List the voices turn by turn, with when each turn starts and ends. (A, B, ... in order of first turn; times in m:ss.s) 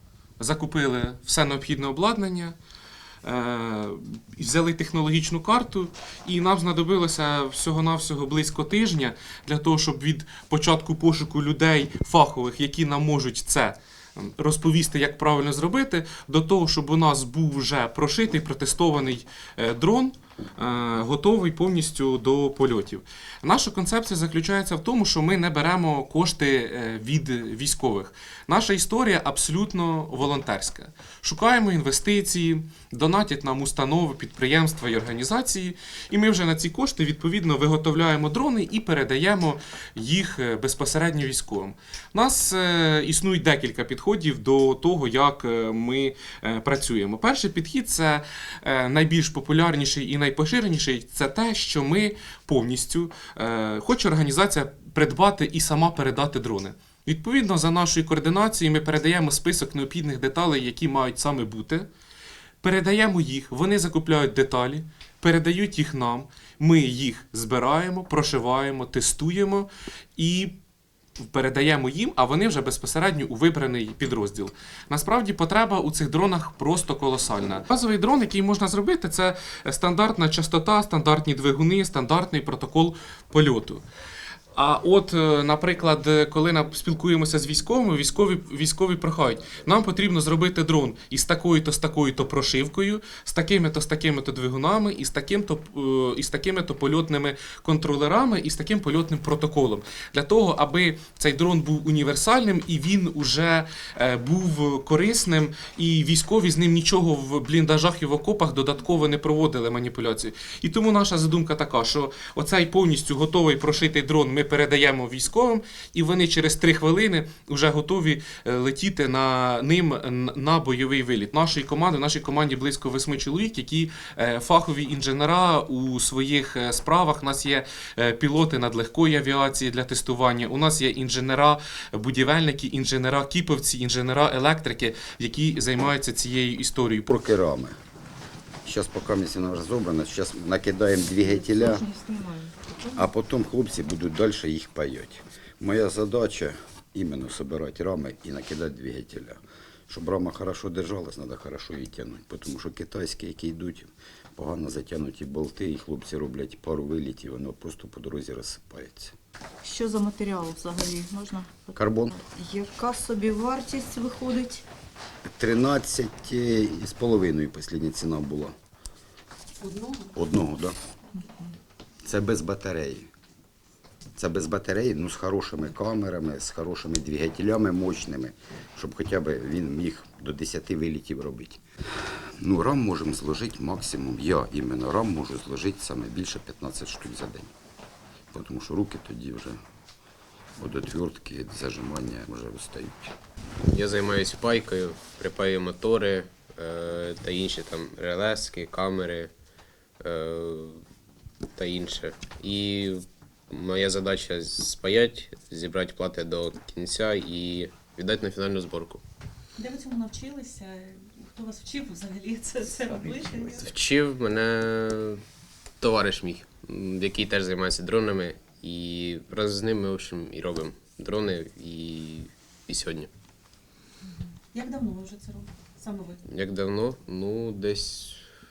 0:00.4-0:02.6 A
0:03.2-1:01.9 A
1:02.6-1:10.6 A
1:11.2-1:23.8 A
1:24.5-2:17.2 A
2:17.1-2:17.7 B
2:18.6-2:21.9 B
2:21.2-2:22.9 C
2:22.9-2:39.1 B
2:39.6-2:44.6 C
2:41.8-2:42.2 B
2:45.3-2:48.5 B
2:49.6-2:50.1 D
2:50.1-2:50.8 B
2:51.2-2:51.5 C
2:52.0-2:53.1 B
2:54.2-3:01.6 B
3:02.4-3:07.5 B
3:08.3-3:09.6 B
3:10.6-3:13.1 B
3:13.7-3:19.3 E
3:20.0-3:20.8 E
3:21.6-3:29.0 E
3:29.6-3:33.7 D
3:33.6-3:35.2 E
3:35.8-3:43.1 E
3:44.5-3:46.2 D
3:46.3-3:48.2 E